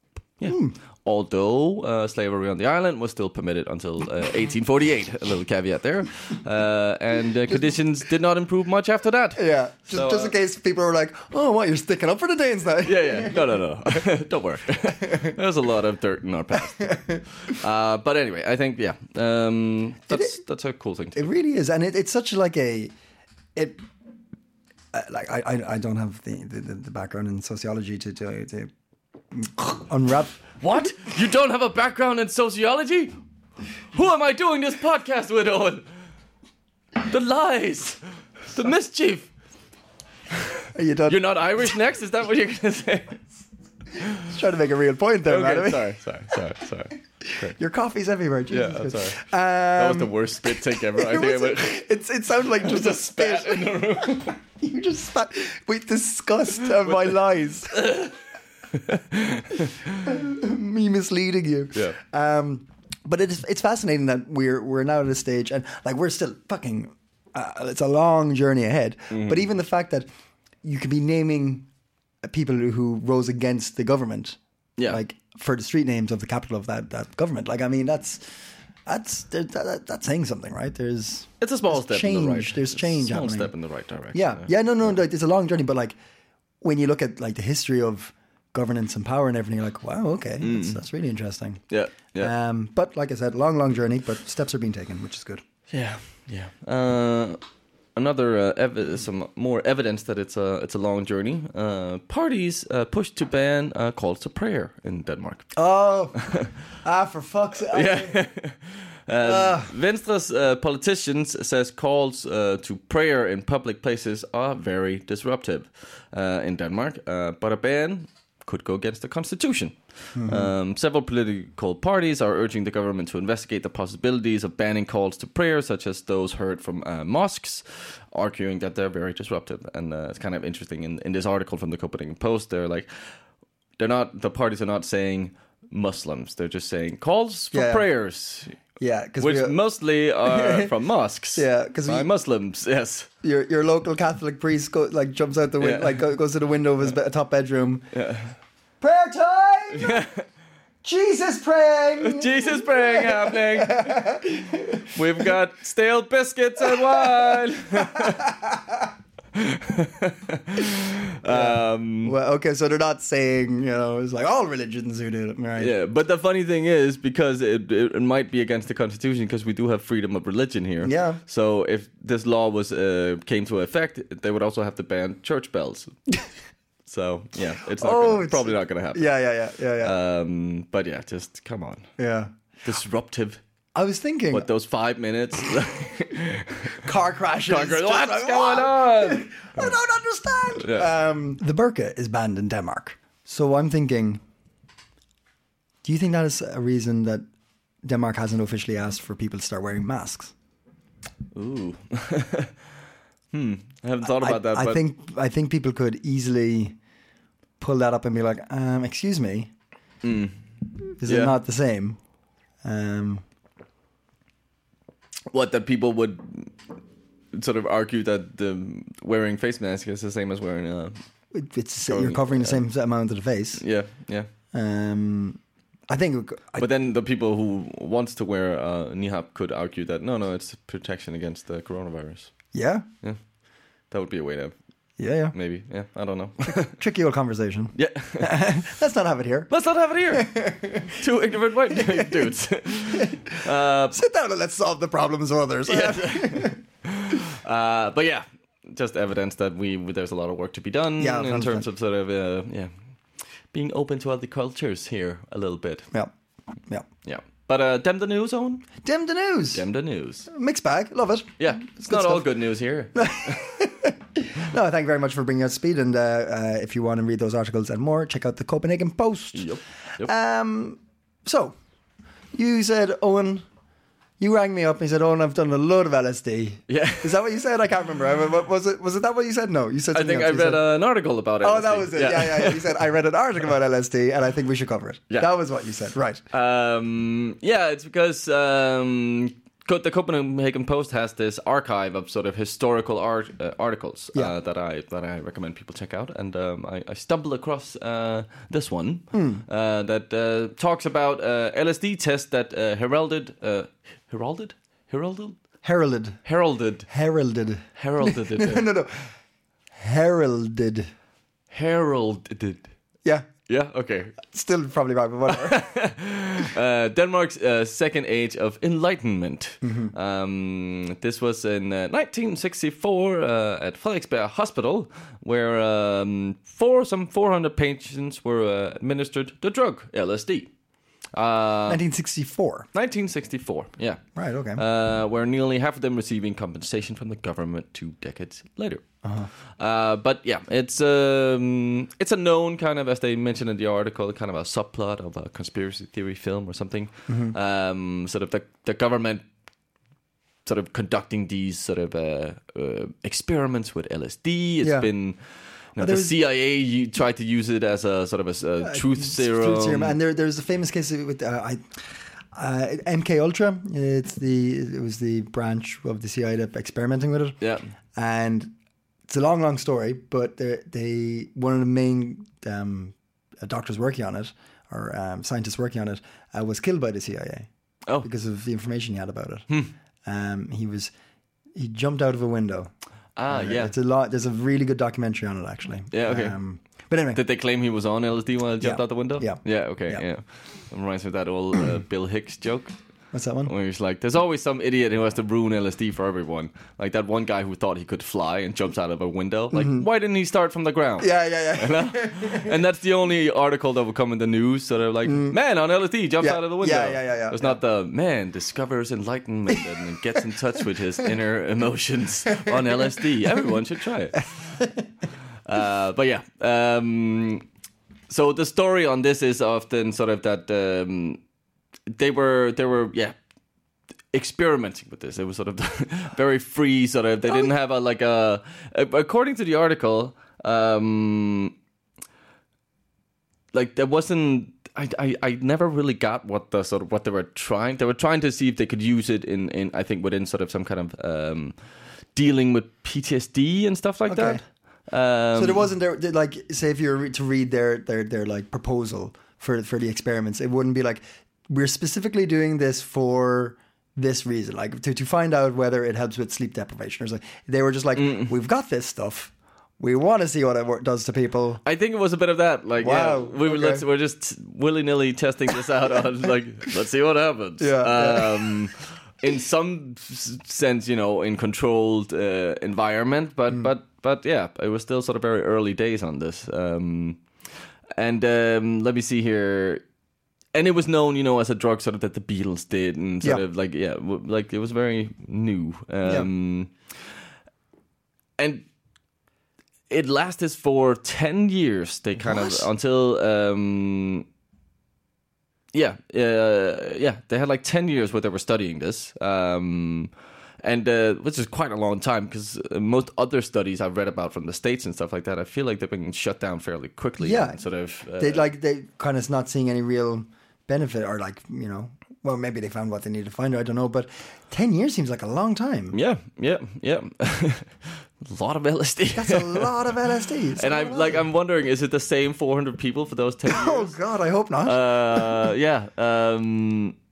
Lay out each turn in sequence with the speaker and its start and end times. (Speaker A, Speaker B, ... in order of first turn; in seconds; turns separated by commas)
Speaker A: 0.4-10.3, Speaker B: 0.5-0.7, Speaker B: 9.3-14.0, Speaker A: 12.8-21.3, Speaker B: 14.9-15.3, Speaker B: 16.8-17.2, Speaker B: 20.1-20.4, Speaker B: 21.1-22.9, Speaker B: 23.5-23.8, Speaker B: 24.9-28.7, Speaker B: 29.3-30.4, Speaker A: 30.6-33.1, Speaker A: 33.9-35.9, Speaker A: 37.0-39.3, Speaker A: 40.4-43.3, Speaker B: 40.7-41.2, Speaker A: 44.0-44.2, Speaker B: 44.2-45.9, Speaker A: 45.2-47.5, Speaker B: 47.2-58.0, Speaker A: 48.5-51.8, Speaker A: 52.6-54.4, Speaker A: 56.8-57.1, Speaker A: 57.7-58.1, Speaker A: 58.7-60.1, Speaker B: 60.0-70.1, Speaker A: 69.1-69.4, Speaker B: 70.6-71.7, Speaker B: 72.2-78.3, Speaker B: 78.8-83.5, Speaker A: 81.4-84.5, Speaker B: 84.1-86.0, Speaker B: 86.6-91.6, Speaker A: 90.4-90.8, Speaker A: 91.7-92.3, Speaker B: 92.2-95.4, Speaker A: 95.7-97.4, Speaker A: 98.0-105.5, Speaker B: 105.5-108.2, Speaker A: 107.7-132.9, Speaker B: 109.2-109.7, Speaker B: 120.2-120.5, Speaker A: 133.8-138.6, Speaker B: 137.5-137.8, Speaker B: 138.8-139.6, Speaker A: 139.2-143.1, Speaker B: 140.2-140.7, Speaker B: 141.3-142.1, Speaker B: 143.2-147.9, Speaker A: 145.6-146.0, Speaker A: 147.9-148.3, Speaker B: 148.8-150.1, Speaker A: 149.7-150.2, Speaker B: 150.8-155.3, Speaker A: 152.0-154.0, Speaker A: 154.9-158.3, Speaker B: 156.6-158.9, Speaker A: 159.3-162.1, Speaker B: 161.3-165.7, Speaker A: 165.6-175.9, Speaker B: 170.8-171.2, Speaker A: 176.8-179.1, Speaker B: 177.7-179.9, Speaker A: 179.8-181.9, Speaker B: 182.0-182.3, Speaker A: 182.6-183.4, Speaker B: 183.7-184.5, Speaker A: 184.3-186.8, Speaker B: 186.7-194.2, Speaker A: 187.5-189.8, Speaker A: 190.5-190.9, Speaker B: 195.8-197.2, Speaker B: 197.8-200.3, Speaker A: 201.3-202.5, Speaker A: 203.3-204.8, Speaker B: 204.0-206.8, Speaker B: 207.6-209.5, Speaker A: 210.0-210.4, Speaker B: 211.0-212.0, Speaker A: 211.0-211.4, Speaker B: 212.6-213.2, Speaker A: 215.3-216.5, Speaker A: 217.3-220.9, Speaker B: 221.3-223.6, Speaker A: 221.8-222.6, Speaker A: 223.6-224.3, Speaker B: 224.5-226.7, Speaker A: 226.6-232.4, Speaker B: 232.5-232.8, Speaker A: 233.9-234.5, Speaker B: 235.0-235.3, Speaker A: 235.3-236.7, Speaker B: 236.5-239.5, Speaker A: 237.7-238.4, Speaker A: 239.5-244.0, Speaker B: 240.1-241.0, Speaker B: 241.7-242.3, Speaker B: 242.9-243.3, Speaker B: 243.9-246.6, Speaker A: 245.7-252.7, Speaker B: 251.0-251.7, Speaker A: 253.5-255.9, Speaker A: 257.0-258.7, Speaker B: 258.8-259.6, Speaker A: 259.5-260.3, Speaker B: 260.3-262.3, Speaker A: 261.4-263.5, Speaker B: 262.9-269.5, Speaker A: 269.3-270.1, Speaker B: 270.0-271.5, Speaker B: 272.3-273.4, Speaker B: 274.2-280.6, Speaker A: 276.7-277.1, Speaker A: 279.9-282.8, Speaker B: 281.4-286.2, Speaker A: 286.3-305.4, Speaker B: 299.1-299.4, Speaker B: 305.6-306.2, Speaker A: 306.2-306.9, Speaker B: 306.9-309.1, Speaker A: 307.8-308.7, Speaker B: 309.7-310.9, Speaker A: 311.5-312.7, Speaker A: 313.5-314.2, Speaker B: 314.2-315.6, Speaker A: 315.3-330.5, Speaker B: 319.6-319.9, Speaker A: 331.1-331.8, Speaker B: 331.7-332.7, Speaker A: 332.7-334.0, Speaker B: 334.1-334.6, Speaker A: 334.6-338.9, Speaker B: 339.0-339.3, Speaker A: 339.6-349.2, Speaker B: 347.1-347.3, Speaker A: 350.4-359.9, Speaker B: 354.6-354.9, Speaker B: 355.8-356.1, Speaker B: 358.6-367.4, Speaker A: 367.4-367.7, Speaker B: 367.9-368.5, Speaker B: 369.1-377.5, Speaker B: 378.0-379.5, Speaker B: 380.0-380.9, Speaker B: 381.5-382.7, Speaker A: 383.1-383.7, Speaker B: 383.3-387.2, Speaker A: 385.9-386.4, Speaker A: 387.1-392.7, Speaker B: 388.6-390.0, Speaker B: 393.1-393.5, Speaker A: 393.4-414.3, Speaker B: 399.5-399.8, Speaker B: 401.0-402.5, Speaker B: 405.0-405.4, Speaker B: 406.2-407.6, Speaker B: 414.4-414.9, Speaker A: 415.4-417.4, Speaker A: 418.1-421.2, Speaker A: 421.9-423.1, Speaker A: 424.1-431.5, Speaker A: 433.5-441.6, Speaker A: 442.1-445.7, Speaker B: 444.1-444.4, Speaker B: 445.3-461.6, Speaker A: 457.9-458.3, Speaker A: 461.6-477.2, Speaker B: 462.8-463.8, Speaker B: 467.6-468.6, Speaker A: 478.0-479.8, Speaker A: 480.5-487.1, Speaker A: 488.4-488.6, Speaker A: 489.9-494.2, Speaker B: 492.2-492.7, Speaker A: 495.7-508.5, Speaker B: 507.2-507.6, Speaker B: 508.2-516.0, Speaker A: 515.9-519.7, Speaker B: 519.1-521.2, Speaker A: 520.5-524.0, Speaker B: 523.5-525.5, Speaker A: 524.6-526.9